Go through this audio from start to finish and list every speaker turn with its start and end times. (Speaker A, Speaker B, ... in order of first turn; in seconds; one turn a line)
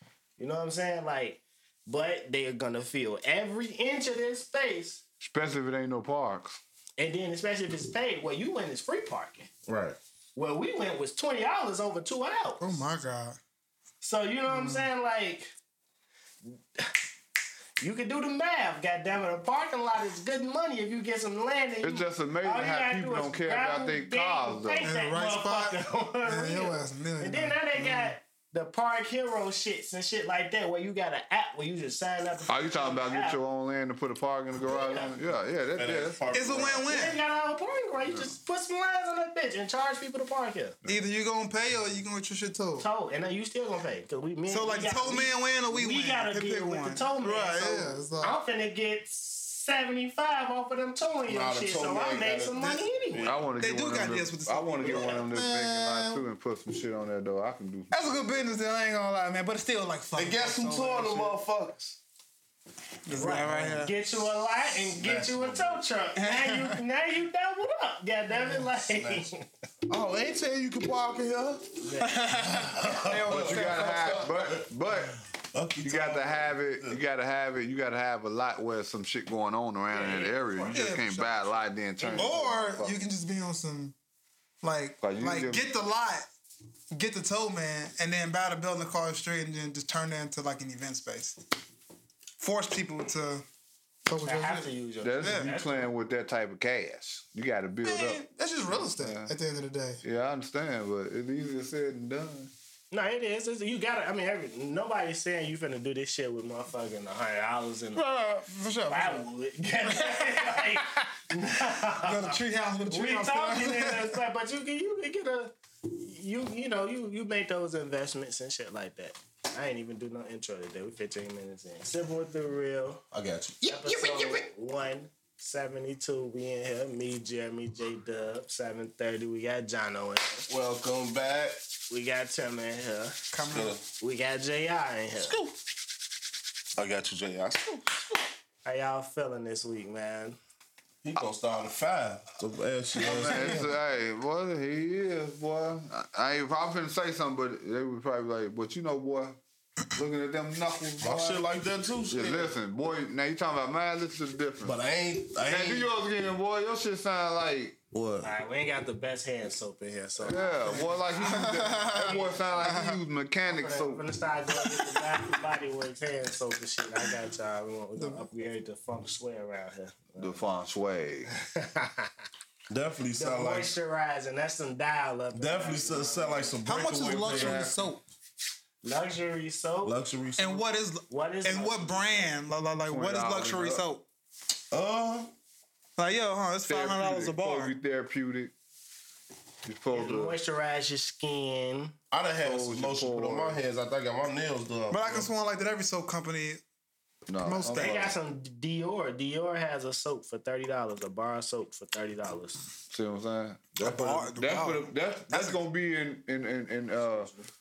Speaker A: 0.4-5.0
Speaker B: 5.2-6.6
Speaker A: 7.0-9.5
Speaker C: 9.7-10.0
Speaker A: 10.4-12.8
Speaker D: 12.6-13.4
Speaker A: 14.0-15.5
Speaker D: 14.5-14.9
Speaker A: 16.5-17.0
Speaker A: 17.8-33.4
Speaker B: 21.8-24.9
Speaker D: 24.8-28.1
Speaker B: 32.5-36.2
Speaker A: 34.6-35.1
Speaker C: 35.8-36.9
Speaker D: 36.3-37.2
Speaker A: 36.8-40.8
Speaker D: 40.9-42.9
Speaker A: 42.8-53.3
Speaker D: 44.5-48.4
Speaker C: 51.3-53.5
Speaker B: 53.2-58.2
Speaker D: 53.6-56.2
Speaker A: 54.8-55.3
Speaker D: 57.9-61.4
Speaker C: 60.1-62.0
Speaker D: 63.1-64.0
Speaker A: 63.1-69.5
Speaker C: 63.4-63.8
Speaker C: 64.7-65.8
Speaker D: 66.2-66.8
Speaker C: 68.6-69.3
Speaker C: 69.9-71.7
Speaker A: 71.8-72.2
Speaker D: 72.0-74.2
Speaker C: 72.3-74.7
Speaker B: 73.0-75.2
Speaker C: 75.5-77.0
Speaker B: 75.8-83.0
Speaker A: 79.9-80.8
Speaker D: 80.7-81.3
Speaker A: 82.0-82.4
Speaker D: 82.1-84.0
Speaker D: 84.6-86.3
Speaker B: 85.0-85.7
Speaker D: 86.9-91.4
Speaker D: 92.4-93.5
Speaker D: 94.0-94.7
Speaker A: 94.2-95.9
Speaker B: 95.0-99.3
Speaker D: 95.2-95.5
Speaker D: 97.8-100.0
Speaker B: 100.0-102.5
Speaker A: 102.9-108.1
Speaker D: 108.0-109.2
Speaker A: 108.9-123.0
Speaker D: 110.0-110.5
Speaker D: 112.0-114.2
Speaker C: 123.1-124.2
Speaker A: 123.7-130.5
Speaker C: 130.5-131.6
Speaker A: 131.9-133.2
Speaker D: 133.3-133.8
Speaker C: 133.5-133.8
Speaker A: 133.8-135.4
Speaker C: 135.2-135.5
Speaker C: 136.8-138.2
Speaker A: 138.7-140.4
Speaker C: 141.0-143.7
Speaker B: 143.0-149.4
Speaker B: 149.9-151.5
Speaker C: 151.0-152.5
Speaker B: 152.1-154.8
Speaker C: 154.6-155.9
Speaker B: 155.4-157.8
Speaker C: 157.9-158.3
Speaker A: 158.2-162.8
Speaker B: 160.2-164.0
Speaker D: 161.2-163.0
Speaker A: 163.5-170.4
Speaker D: 168.0-168.2
Speaker B: 170.2-171.3
Speaker A: 171.5-172.1
Speaker C: 172.7-173.7
Speaker A: 173.2-176.6
Speaker C: 175.3-177.7
Speaker D: 176.7-178.0
Speaker B: 177.0-177.9
Speaker A: 178.8-180.0
Speaker C: 179.8-180.6
Speaker D: 180.4-184.1
Speaker A: 181.1-182.4
Speaker B: 182.9-183.8
Speaker C: 184.7-185.3
Speaker D: 186.0-187.7
Speaker B: 186.7-188.5
Speaker B: 189.7-190.4
Speaker A: 189.9-191.9
Speaker C: 192.1-195.3
Speaker B: 192.4-193.6
Speaker D: 194.9-196.6
Speaker B: 197.3-198.1
Speaker D: 197.4-198.1
Speaker A: 197.7-202.7
Speaker B: 202.9-207.3
Speaker D: 203.8-205.6
Speaker A: 207.1-207.4